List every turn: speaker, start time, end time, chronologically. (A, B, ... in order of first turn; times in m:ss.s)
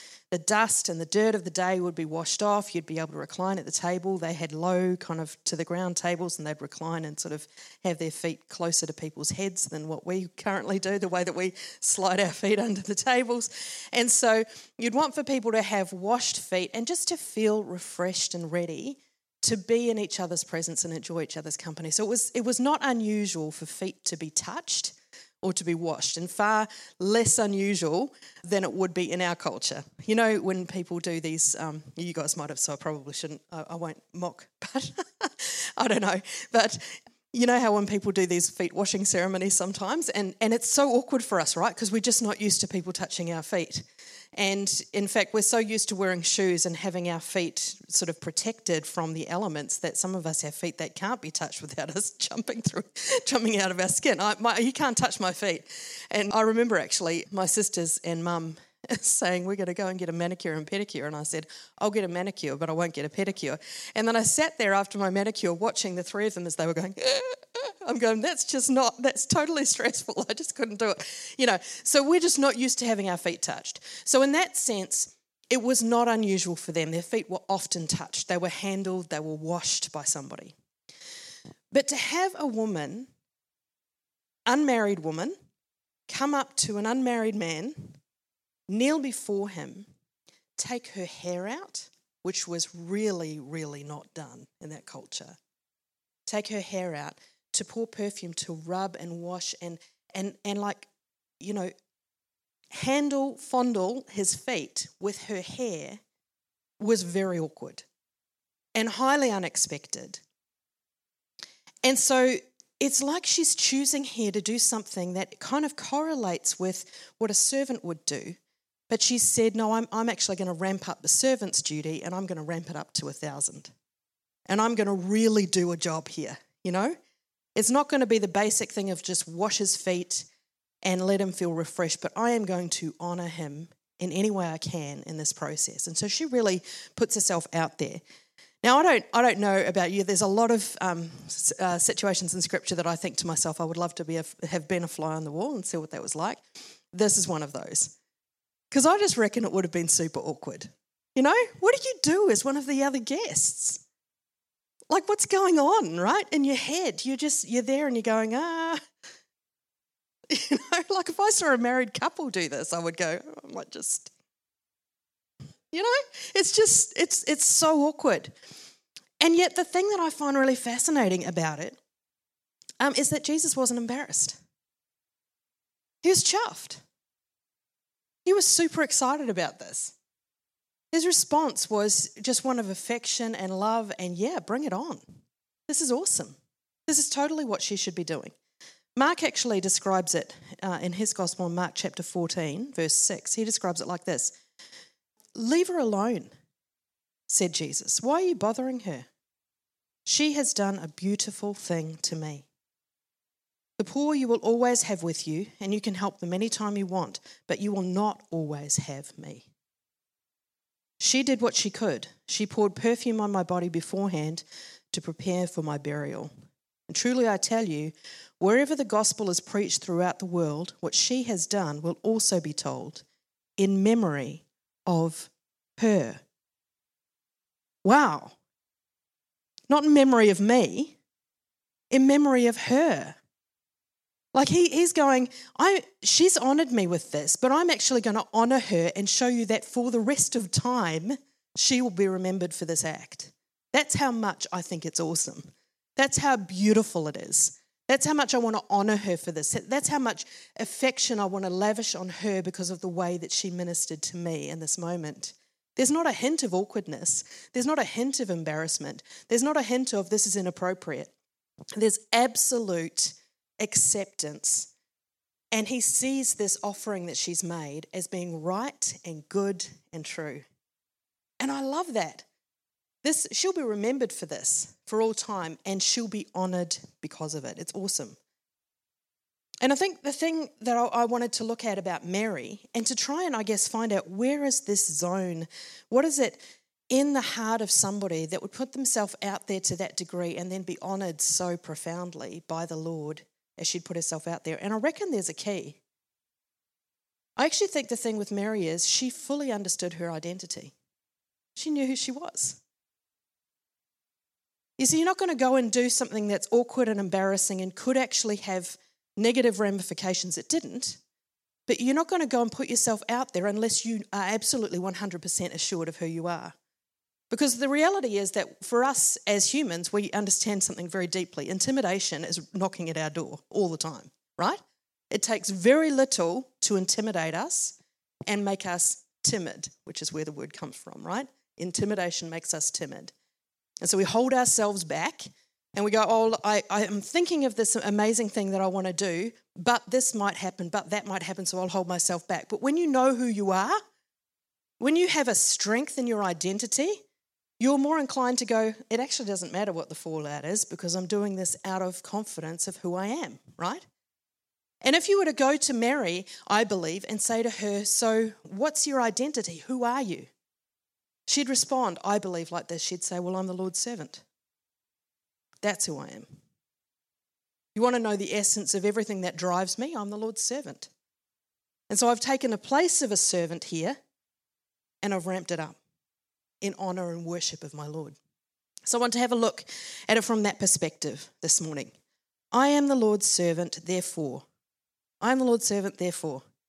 0:00.3-1:20.6 A
1:21.7-1:23.1 A
1:24.5-1:25.4 A
1:26.1-1:28.0 A
1:28.7-1:29.9 A
1:30.6-1:35.4 A
1:36.3-1:40.9 A
1:41.4-1:41.7 A
1:42.7-1:46.0 A
1:46.8-1:47.8 A
1:48.8-1:50.2 A
1:51.8-1:58.4 A
1:58.9-2:03.7 A
2:04.5-2:07.0 A
2:07.6-2:10.3 A
2:10.8-2:18.0 A
2:18.6-2:28.0 A
2:28.7-2:33.8 A
2:34.9-2:38.8 A
2:40.3-2:44.1 A
2:45.7-2:48.3 A
2:49.2-2:51.8 A
2:52.8-2:54.4 A
2:56.0-2:56.8 A
2:58.2-3:00.0 A
3:00.9-3:05.0 A
3:05.7-3:08.4 A
3:09.0-3:14.3 A
3:15.4-3:16.3 A
3:17.3-3:19.1 A
3:20.1-3:22.5 A
3:23.8-3:29.5 A
3:31.0-3:36.3 A
3:36.9-3:43.0 A
3:43.6-3:46.2 A
3:47.8-3:48.4 A
3:49.7-3:51.0 A
3:51.9-3:53.2 A
3:54.3-4:21.1 A
4:21.8-4:24.7 A
4:25.5-4:30.4 A
4:31.4-4:32.3 A
4:33.0-4:38.2 A
4:39.6-4:46.4 A
4:46.9-4:55.8 A
4:57.4-5:00.7 A
5:01.6-5:02.6 A
5:04.8-5:11.0 A
5:11.7-5:16.6 A
5:17.3-5:24.6 A
5:25.1-5:33.1 A
5:33.8-5:43.8 A
5:44.8-5:47.0 A
5:47.6-5:53.8 A
5:54.8-6:00.3 A
6:01.3-6:04.2 A
6:05.6-6:06.3 A
6:07.8-6:10.9 A
6:11.9-6:14.0 A
6:15.0-6:15.8 A
6:16.6-6:18.2 A
6:18.9-6:21.9 A
6:22.5-6:24.4 A
6:25.2-6:26.4 A